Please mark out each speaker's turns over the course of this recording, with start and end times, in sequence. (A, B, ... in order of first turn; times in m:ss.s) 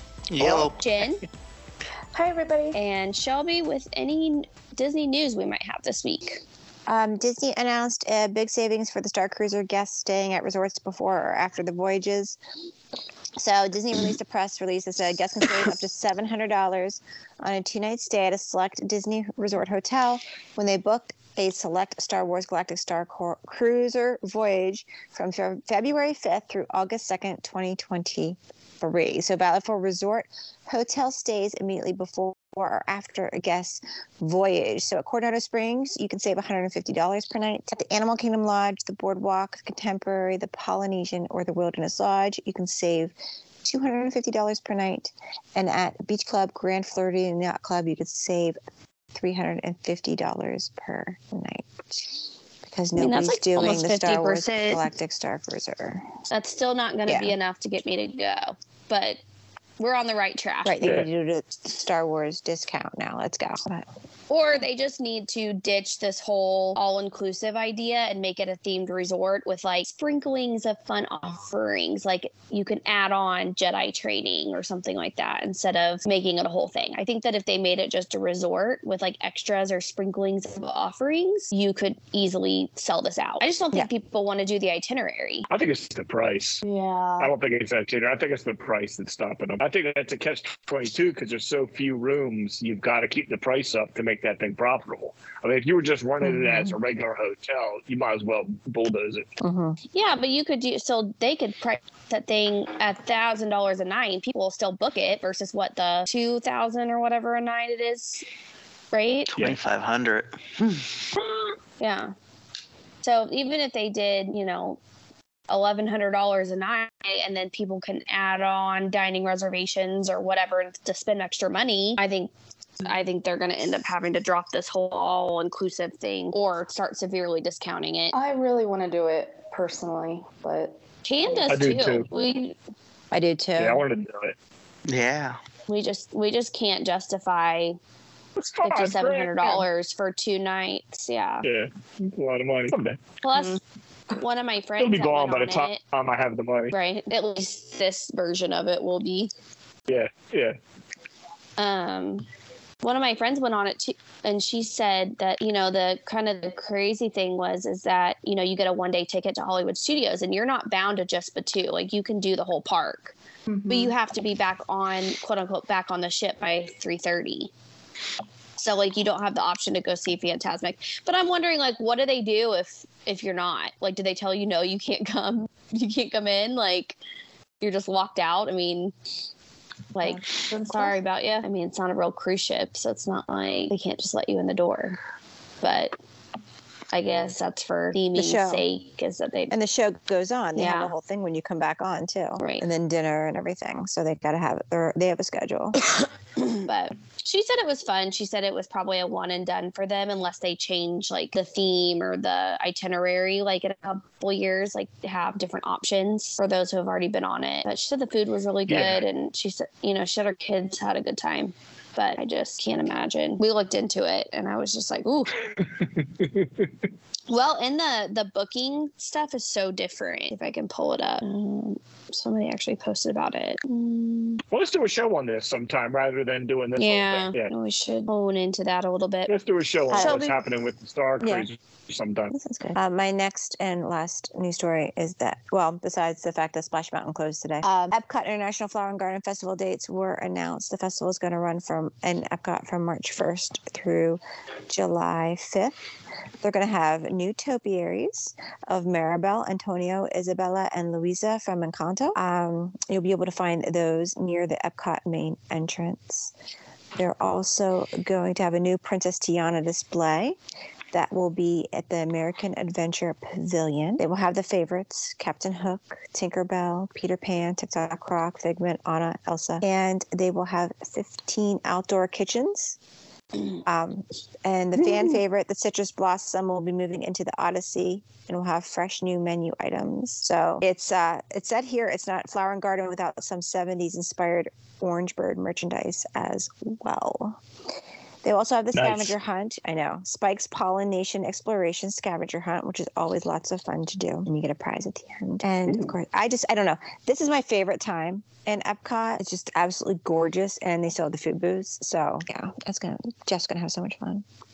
0:00.3-0:00.8 A
0:00.4-0:01.2 B
0:02.1-0:02.8 C
0:02.7-0:06.4 B
0:06.9-0:12.4 D
0:13.4-0:48.6 D
0:49.1-0:56.1 D
0:53.0-0:54.8 B
0:56.3-0:59.2 B
0:57.1-0:57.3 D
0:59.8-1:01.0 B
1:00.6-1:03.8 D
1:04.3-1:25.4 B
1:25.5-1:26.6 E
1:26.6-1:27.3 C
1:27.2-1:39.3 E
1:36.2-1:36.8 D
1:39.4-1:39.8 D
1:39.9-1:48.2 B
1:48.9-1:49.3 B
1:49.3-1:50.9 A
1:51.8-1:52.1 B
1:53.0-1:54.8 B
1:55.5-2:08.2 B
2:08.1-2:10.8 C
2:11.0-2:12.6 B
2:11.5-2:12.1 E
2:13.1-2:13.8 D
2:13.6-2:14.3 E
2:14.9-2:15.4 A
2:15.7-2:17.8 B
2:18.4-2:19.6 E
2:18.6-2:21.4 B
2:21.4-2:23.0 E
2:23.2-2:23.6 B
2:24.1-2:25.8 B
2:24.8-2:26.7 E
2:26.7-2:29.3 B
2:29.9-2:30.6 E
2:31.6-2:32.2 B
2:32.8-2:43.1 B
2:43.5-2:43.9 C
2:43.7-2:47.5 B
2:48.6-2:57.0 B
2:57.6-2:58.9 B
2:59.9-3:05.0 B
3:00.6-3:00.9 C
3:05.6-3:05.9 B
3:06.9-3:09.5 B
3:08.1-3:08.6 D
3:09.5-3:15.8 D
3:10.6-3:10.9 B
3:12.4-3:12.6 B
3:16.4-3:35.4 B
3:28.7-3:29.0 E
3:35.6-3:36.7 E
3:37.3-3:44.4 B
3:44.5-3:47.5 E
3:46.8-3:49.3 B
3:49.3-3:52.3 E
3:49.9-3:50.4 B
3:51.2-3:51.5 D
3:52.3-4:05.8 D
4:06.4-4:16.3 D
4:17.0-4:20.4 D
4:20.9-4:32.8 D
4:33.6-4:47.4 D
4:48.2-5:04.2 D
4:48.7-4:49.1 E